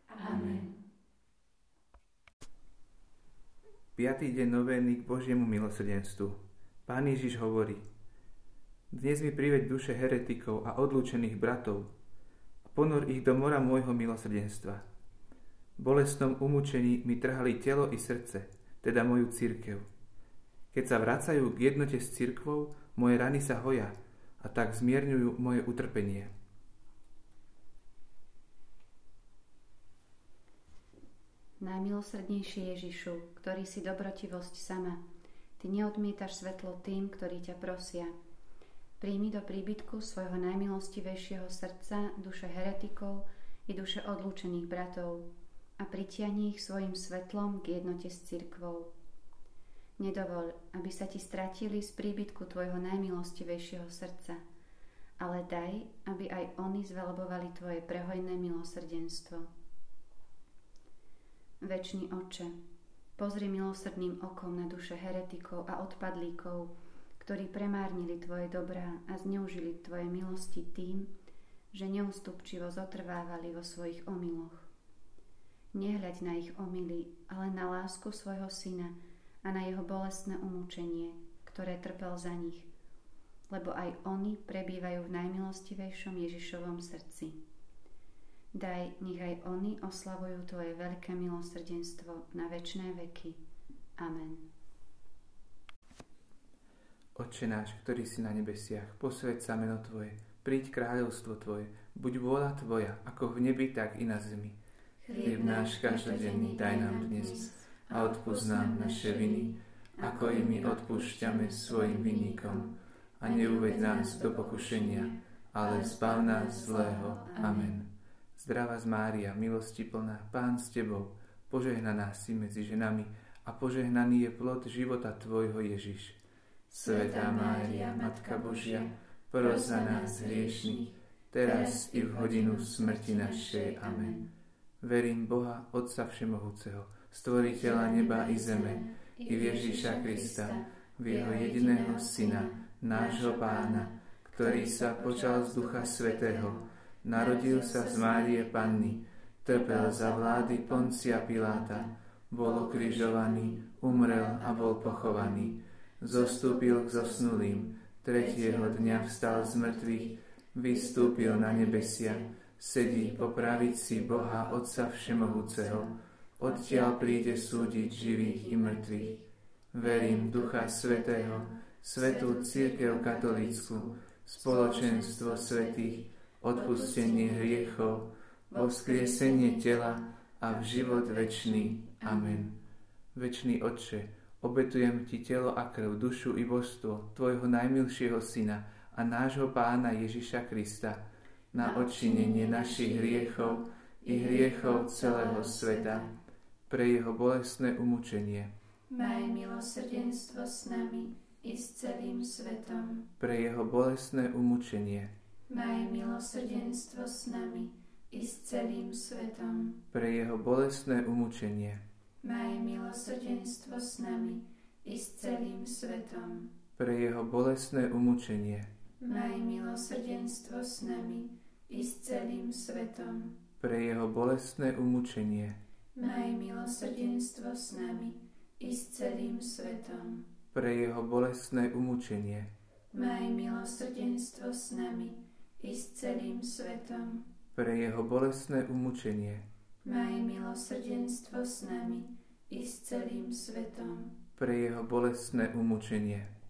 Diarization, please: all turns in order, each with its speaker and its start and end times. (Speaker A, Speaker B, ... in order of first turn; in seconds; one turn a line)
Speaker A: 0.1-0.7
Speaker B: 0.3-0.6
Speaker B: 4.0-7.8
Speaker B: 8.9-11.9
Speaker B: 12.7-14.8
Speaker B: 15.8-19.9
Speaker B: 20.7-26.3
Speaker A: 31.6-35.0
Speaker A: 35.6-38.2
Speaker A: 39.0-45.3
Speaker A: 45.8-48.9
Speaker A: 50.0-54.4
Speaker A: 55.2-59.5
Speaker A: 61.6-62.6
Speaker A: 63.2-71.1
Speaker A: 71.7-74.7
Speaker A: 75.7-82.7
Speaker A: 83.5-87.4
Speaker A: 88.5-93.4
Speaker A: 94.0-94.5
Speaker B: 97.2-104.6
Speaker C: 105.0-112.7
Speaker A: 105.1-105.7
Speaker B: 105.2-126.2
Speaker A: 106.4-107.4
Speaker C: 113.2-117.8
Speaker A: 115.7-117.5
Speaker B: 126.7-134.3
Speaker C: 126.7-134.2
Speaker B: 134.8-182.6
Speaker C: 137.4-146.6
Speaker C: 147.1-155.5
Speaker C: 156.1-160.2
Speaker C: 160.7-165.9
Speaker C: 166.4-169.2
Speaker C: 169.8-177.9
Speaker C: 178.5-182.5
Speaker B: 183.2-196.1
Speaker C: 191.6-196.1
Speaker B: 196.7-198.5
Speaker C: 198.9-203.1
Speaker B: 203.2-205.1
Speaker C: 205.5-209.8
Speaker B: 209.9-211.8
Speaker C: 212.2-216.5
Speaker B: 216.8-218.7
Speaker C: 219.0-223.4
Speaker B: 223.6-225.6
Speaker C: 226.0-230.3
Speaker B: 230.5-232.5
Speaker C: 232.9-237.2
Speaker B: 237.6-239.4
Speaker C: 239.8-244.2
Speaker B: 244.4-246.3